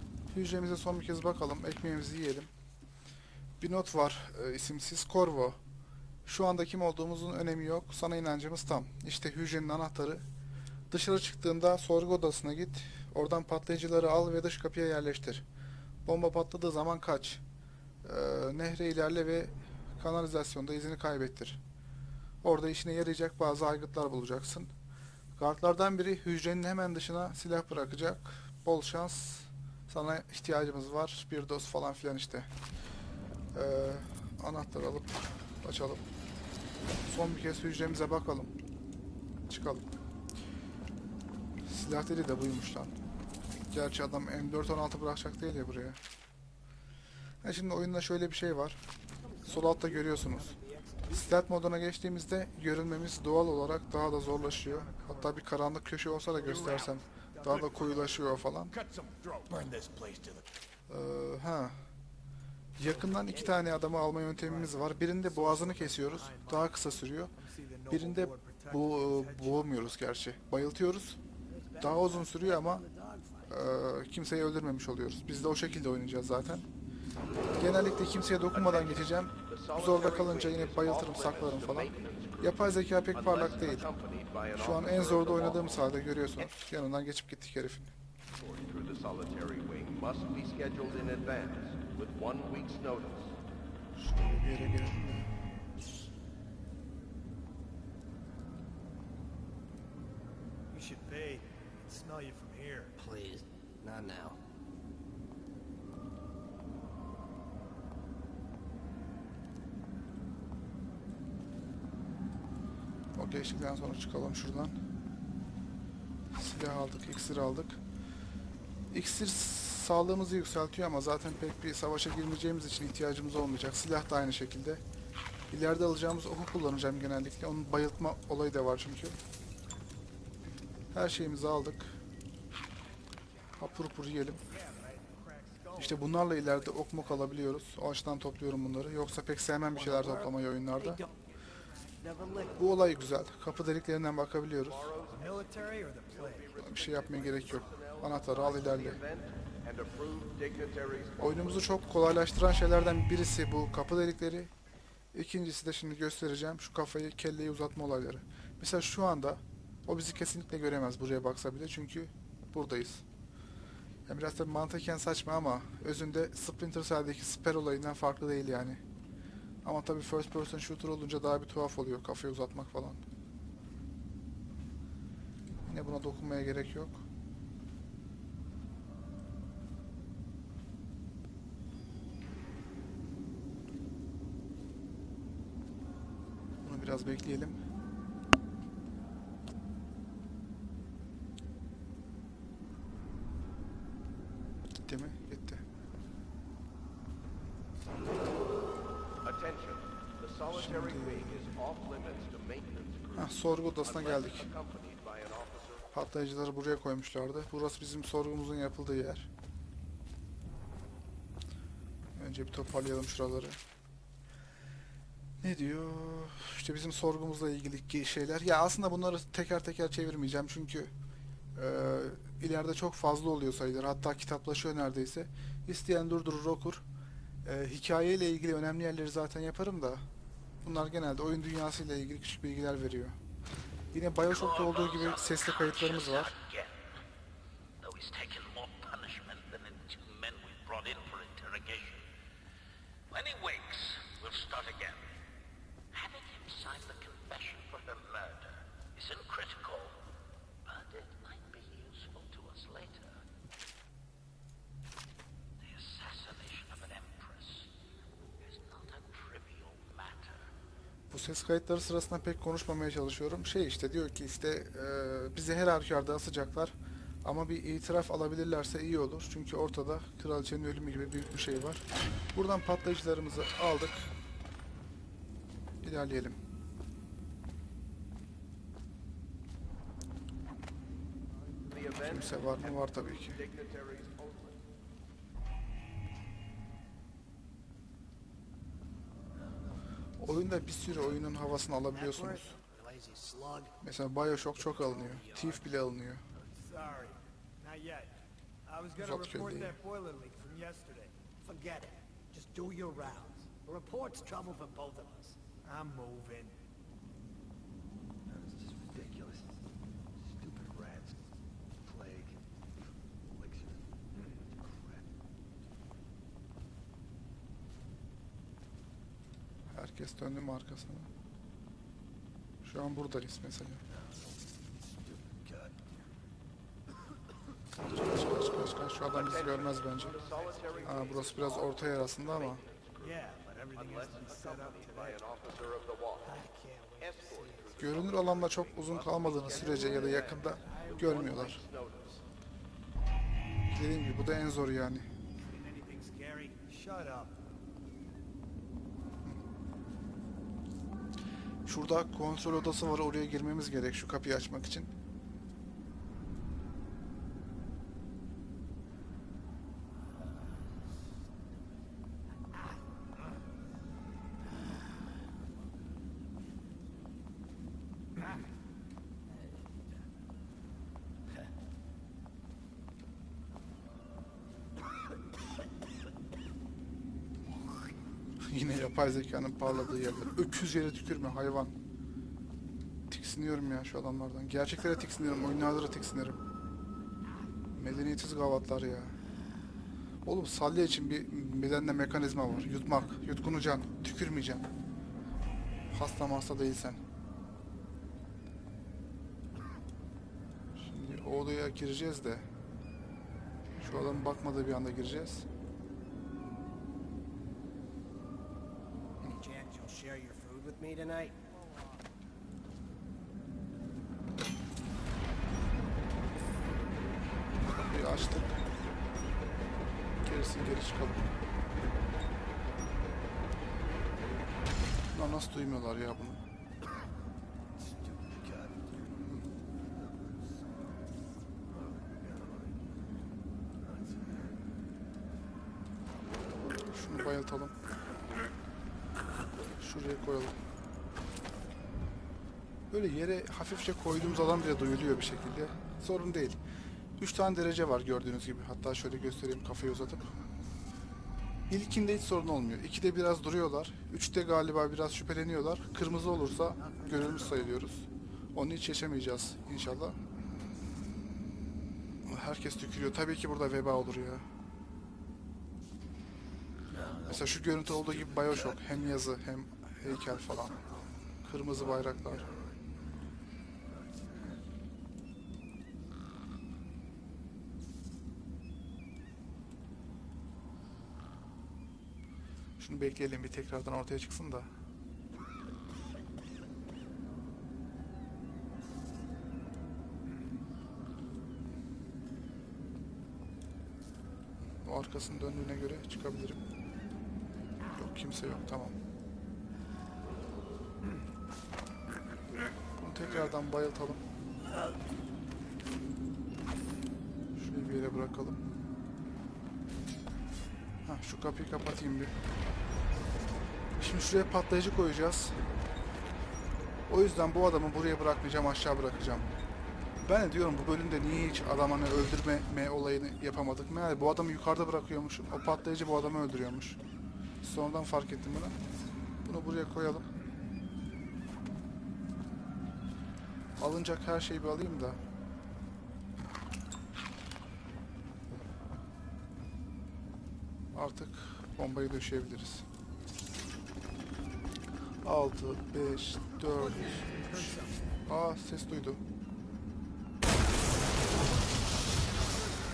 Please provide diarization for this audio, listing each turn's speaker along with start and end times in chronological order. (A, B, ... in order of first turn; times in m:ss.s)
0:00.3-0:02.5 A
0:03.6-0:05.6 A
0:06.3-0:10.2 A
0:10.9-0:15.4 A
0:16.1-0:17.4 A
0:18.0-0:21.6 A
0:22.4-0:24.7 A
0:25.4-0:32.5 A
0:33.5-0:36.0 A
0:37.1-0:38.5 A
0:39.5-0:39.9 A
0:41.7-0:42.9 A
0:43.7-0:46.0 A
0:47.4-0:48.8 A
0:49.2-0:51.5 B
0:49.4-0:50.6 A
0:51.1-0:58.7 A
0:54.2-0:55.4 C
0:56.4-0:58.3 C
0:56.5-0:56.9 D
0:58.7-1:00.5 D
1:00.9-1:01.8 A
1:02.8-1:07.3 A
1:02.8-1:03.8 B
1:04.4-1:10.0 C
1:07.9-1:11.2 A
1:11.5-1:13.6 B
1:11.8-1:12.8 A
1:13.5-1:16.7 A
1:17.6-1:23.9 A
1:18.5-1:26.5 E
1:24.6-1:27.9 A
1:28.4-1:33.4 E
1:34.0-1:35.3 A
1:40.7-1:43.0 C
1:43.0-1:44.4 B
1:53.2-1:54.8 A
1:56.3-1:57.8 A
1:58.9-2:04.8 A
2:05.5-2:09.2 A
2:10.9-2:12.0 A
2:13.6-2:14.4 A
2:14.4-2:17.4 C
2:15.8-2:21.0 A
2:19.7-2:21.3 B
2:22.0-2:22.8 B
2:22.6-2:24.9 A
2:24.6-2:31.8 E
2:25.1-2:26.6 C
2:26.6-2:29.0 A
2:31.2-2:34.5 A
2:35.1-2:43.0 A
2:44.1-2:48.8 A
2:49.6-2:53.0 A
2:55.7-2:57.0 A
3:06.6-3:07.6 A
3:14.8-3:15.6 A
3:19.2-3:25.9 E
3:20.5-3:21.4 A
3:23.2-3:24.5 A
3:25.9-3:29.3 A
3:32.2-3:33.6 A
3:35.4-3:40.9 A
3:41.6-3:46.8 A
3:47.4-3:50.0 A
3:50.6-3:53.2 A
3:53.9-3:56.3 A
3:54.3-3:57.0 D
3:57.8-4:02.1 D
4:03.1-4:05.1 D
4:05.9-4:10.0 D
4:10.6-4:13.2 D
4:15.6-4:17.7 D
4:18.4-4:20.5 D
4:21.1-4:31.8 A
4:32.3-4:34.1 A
4:35.8-4:36.4 A
4:41.7-4:44.6 E
4:42.0-4:43.4 A
4:50.2-4:52.5 A
4:51.9-4:53.8 B
4:53.8-4:56.2 A
4:54.5-4:55.7 B
4:56.5-4:58.1 C
4:58.7-5:01.2 C
4:59.0-4:59.7 A
5:01.4-5:05.4 B
5:02.8-5:03.4 C
5:05.6-5:06.5 C
5:08.3-5:09.5 B
5:10.3-5:11.1 B
5:11.8-5:12.4 B
5:13.4-5:15.0 B
5:19.7-5:21.1 A
5:22.6-5:23.8 A
5:25.0-5:25.7 B
5:27.9-5:30.2 A
5:29.0-5:36.4 E
5:30.0-5:31.5 C
5:30.8-5:32.6 A
5:33.0-5:35.3 C
5:36.2-5:38.0 C
5:37.0-5:42.2 E
5:37.8-5:41.6 A
5:39.5-5:41.3 C
5:39.5-5:40.7 B
5:43.7-5:45.1 A
5:45.5-5:47.4 C
5:51.7-5:54.9 A
6:18.5-6:21.8 A
6:23.1-6:26.4 A
6:27.8-6:29.2 A
6:30.2-6:34.7 A
6:35.9-6:37.0 A
6:40.8-6:42.4 A
6:43.8-6:45.5 A
6:49.2-6:51.4 B
6:51.7-6:52.0 C
6:57.7-6:58.6 A
7:00.2-7:01.3 A
7:05.1-7:06.4 A
7:07.8-7:09.0 B
7:11.9-7:12.7 B
7:13.8-7:14.4 B
7:16.9-7:17.7 A
7:19.8-7:20.6 A
7:22.9-7:26.6 A
7:27.2-7:30.3 A
7:31.7-7:40.2 A
7:36.7-7:37.8 B
7:42.3-7:44.4 A
7:47.0-7:47.5 B
7:47.3-7:50.8 A
7:48.5-7:48.8 B
7:50.2-7:51.0 B
7:51.4-7:52.5 A
7:51.8-7:52.8 B
8:02.8-8:04.7 A
8:14.8-8:16.6 A
8:18.0-8:19.0 A
8:23.0-8:24.2 A
8:27.6-8:28.6 A
8:31.1-8:32.3 A
8:34.0-8:35.6 A
8:37.1-8:39.5 A
8:40.2-8:47.0 A
8:47.6-8:48.8 A
8:49.4-8:50.3 A
8:53.8-8:55.2 A
9:00.9-9:02.8 A
9:05.2-9:07.8 A
9:06.6-9:08.1 C
9:08.3-9:09.2 A